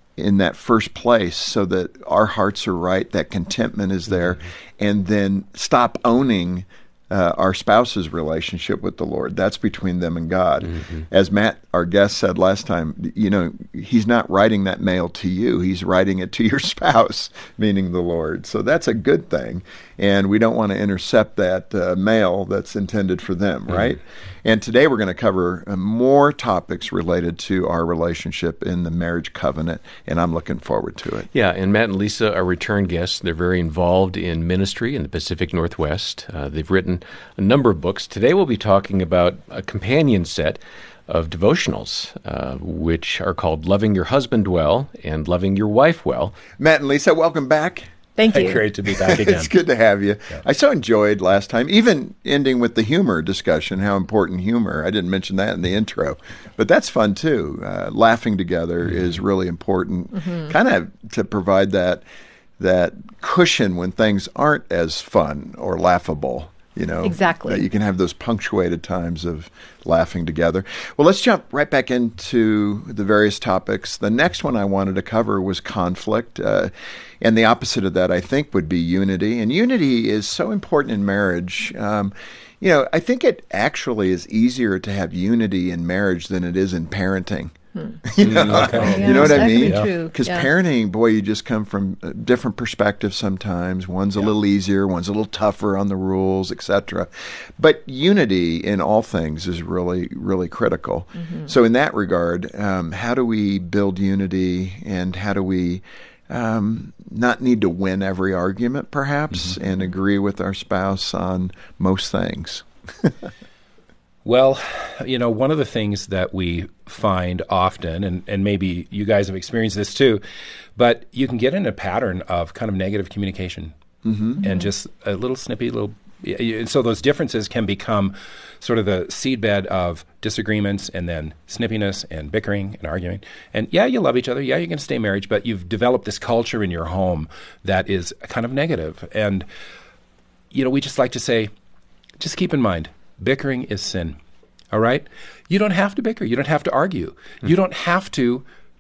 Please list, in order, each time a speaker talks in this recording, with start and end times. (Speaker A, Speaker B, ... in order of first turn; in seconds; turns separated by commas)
Speaker A: 0.2-31.3, Speaker B: 31.3-46.4, Speaker A: 46.6-47.9, Speaker C: 48.2-48.6, Speaker D: 48.3-49.5, Speaker A: 48.9-62.0, Speaker A: 62.6-113.1, Speaker C: 67.0-67.7, Speaker B: 88.2-89.5, Speaker D: 88.4-89.9, Speaker C: 88.8-90.5, Speaker D: 114.2-120.2, Speaker D: 120.8-123.7, Speaker A: 124.0-124.4, Speaker D: 124.4-139.5, Speaker D: 140.5-141.5, Speaker D: 142.2-144.2, Speaker D: 144.7-148.4